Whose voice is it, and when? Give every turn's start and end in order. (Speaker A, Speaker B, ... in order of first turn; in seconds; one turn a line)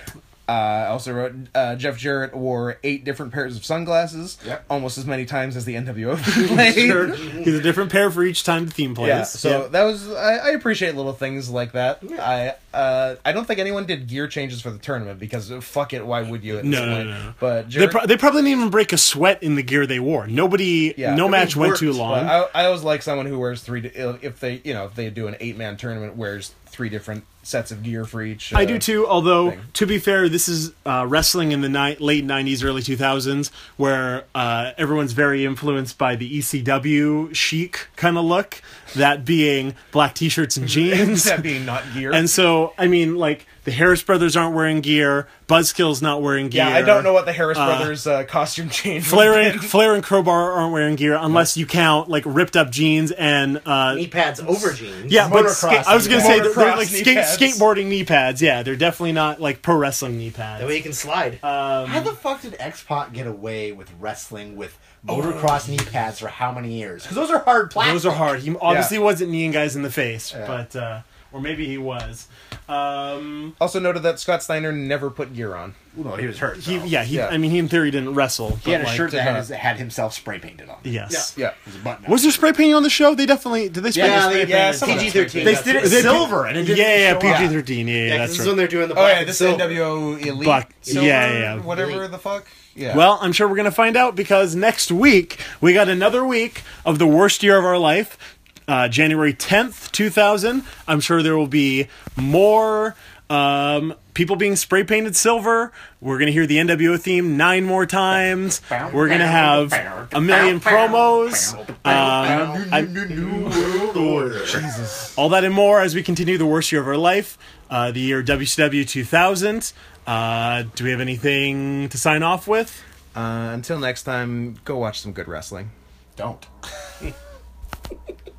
Speaker A: 0.5-7.4
Speaker B: 6.4-9.7
Speaker A: 9.0-18.0
Speaker B: 16.6-22.4
Speaker A: 21.0-29.6
Speaker C: 21.2-21.7
Speaker B: 28.5-41.4
Speaker A: 40.6-42.2
Speaker B: 42.1-48.0
Speaker A: 46.5-49.7
Speaker B: 49.0-54.1
Speaker C: 53.9-55.2
Speaker B: 55.1-60.8
Speaker D: 55.1-56.6
Speaker A: 56.0-57.6
Speaker C: 60.6-61.4
Speaker B: 61.4-62.1
Speaker D: 61.8-68.3
Speaker B: 67.8-73.5
Speaker A: 68.7-68.9
Speaker D: 70.3-70.6
Speaker A: 73.6-75.8
Speaker D: 75.9-77.0
Speaker B: 76.6-79.1
Speaker A: 77.1-77.3
Speaker D: 78.6-81.1
Speaker A: 79.0-79.5
Speaker B: 80.8-81.3
Speaker D: 81.6-82.5
Speaker B: 82.1-88.7
Speaker C: 83.9-86.4
Speaker A: 84.0-86.1
Speaker D: 85.4-87.5
Speaker A: 87.2-87.6
Speaker C: 88.0-90.0
Speaker A: 88.9-93.0
Speaker B: 90.3-91.7
Speaker C: 90.8-92.0
Speaker B: 92.9-113.2
Speaker D: 108.7-110.5
Speaker C: 110.3-111.0
Speaker D: 111.4-114.6
Speaker C: 111.8-112.6
Speaker C: 113.3-114.6
Speaker A: 114.5-115.1
Speaker B: 115.2-122.8
Speaker A: 123.1-125.7
Speaker D: 126.2-126.5